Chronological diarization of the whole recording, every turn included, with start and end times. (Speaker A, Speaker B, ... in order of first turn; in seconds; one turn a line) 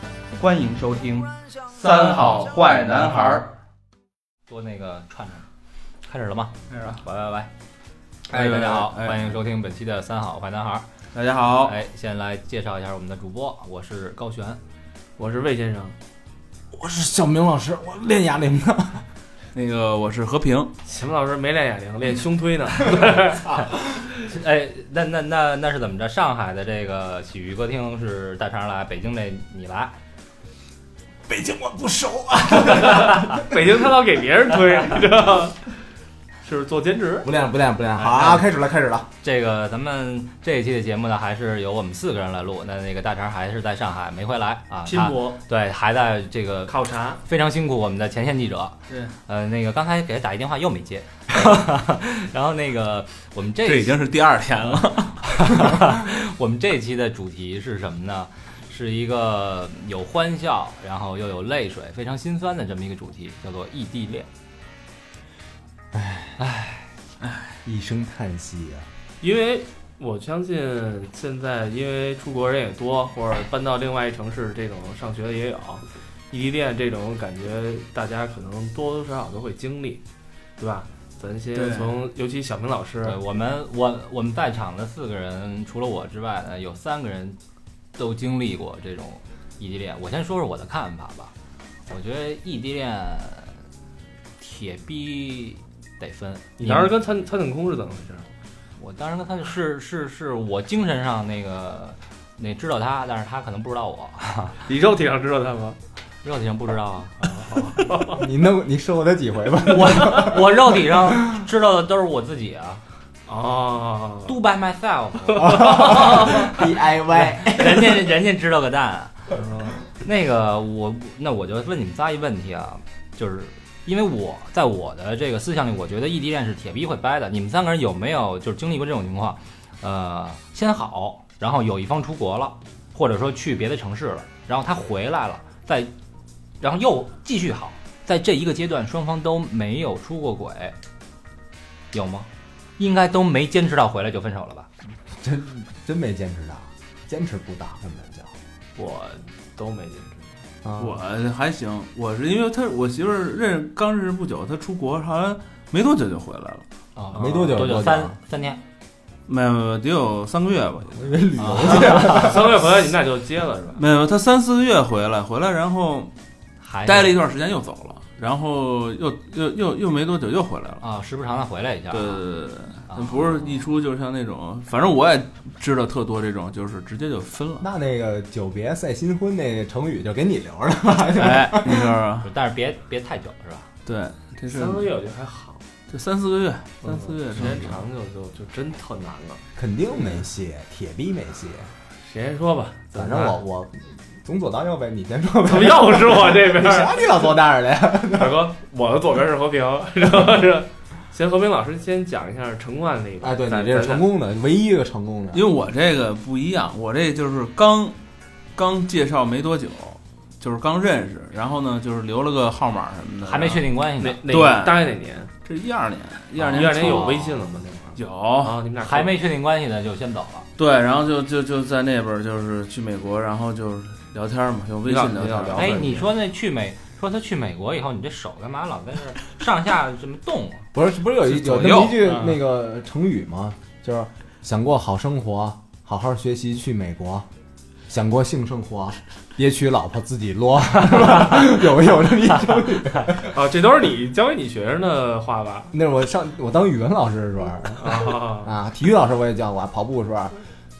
Speaker A: 0.4-3.1
Speaker B: 1.7-3.5
Speaker C: 2.2-3.5
Speaker C: 4.5-5.5
Speaker C: 6.0-7.5
Speaker B: 8.3-9.4
Speaker C: 8.3-10.9
Speaker B: 11.1-11.7
Speaker C: 11.6-14.6
Speaker D: 15.2-15.9
Speaker E: 16.7-19.1
Speaker B: 19.5-20.7
Speaker D: 20.8-23.6
Speaker C: 24.2-29.9
Speaker E: 31.3-33.6
Speaker D: 32.7-35.7
Speaker D: 36.4-37.3
Speaker E: 37.2-39.1
Speaker C: 38.0-38.5
Speaker C: 39.2-54.0
Speaker D: 44.9-45.4
Speaker D: 46.7-47.2
Speaker B: 48.9-49.1
Speaker B: 53.6-55.7
Speaker C: 55.3-64.3
Speaker E: 65.9-66.4
Speaker C: 66.4-66.9
Speaker B: 67.2-67.5
Speaker E: 67.6-68.9
Speaker D: 69.2-80.0
Speaker D: 80.6-83.2
Speaker B: 81.5-82.0
Speaker C: 83.0-87.4
Speaker C: 88.0-91.3
Speaker C: 91.9-93.6
Speaker C: 94.4-96.9
Speaker D: 96.6-98.3
Speaker C: 98.8-104.6
Speaker D: 104.7-105.8
Speaker C: 106.2-107.8
Speaker D: 107.7-108.2
Speaker E: 108.0-111.5
Speaker C: 109.6-112.8
Speaker D: 113.3-114.4
Speaker C: 114.2-116.6
Speaker D: 115.4-116.0
Speaker E: 115.4-118.1
Speaker C: 117.4-119.2
Speaker D: 119.3-119.8
Speaker C: 120.0-135.9
Speaker C: 136.6-140.8
Speaker C: 141.9-144.7
Speaker E: 145.1-148.3
Speaker D: 148.8-150.3
Speaker E: 150.6-151.0
Speaker B: 150.8-156.7
Speaker C: 157.0-158.6
Speaker D: 157.0-157.7
Speaker E: 157.1-158.2
Speaker B: 159.3-161.2
Speaker E: 160.9-162.6
Speaker C: 161.4-162.3
Speaker D: 161.6-163.8
Speaker B: 163.8-166.1
Speaker C: 166.6-167.2
Speaker B: 166.8-170.8
Speaker C: 170.8-172.2
Speaker B: 171.9-177.7
Speaker C: 172.9-173.5
Speaker E: 177.6-182.0
Speaker B: 181.2-182.3
Speaker C: 182.2-183.7
Speaker B: 183.8-184.9
Speaker D: 184.5-185.6
Speaker B: 185.9-187.8
Speaker D: 186.8-189.4
Speaker E: 189.6-191.7
Speaker D: 192.0-193.4
Speaker E: 192.9-198.5
Speaker D: 195.4-197.3
Speaker D: 198.0-204.1
Speaker E: 203.2-205.4
Speaker B: 205.3-208.0
Speaker B: 208.6-213.7
Speaker C: 213.2-214.2
Speaker D: 214.0-215.3
Speaker B: 214.3-214.9
Speaker B: 215.4-217.1
Speaker D: 216.4-219.2
Speaker E: 216.6-217.4
Speaker B: 218.2-218.6
Speaker C: 218.8-220.5
Speaker B: 220.6-226.0
Speaker D: 224.8-226.1
Speaker C: 225.6-230.7
Speaker E: 230.7-237.3
Speaker B: 231.2-232.1
Speaker C: 232.1-232.3
Speaker E: 237.9-243.3
Speaker D: 243.1-245.7
Speaker E: 245.7-250.4
Speaker D: 247.8-248.5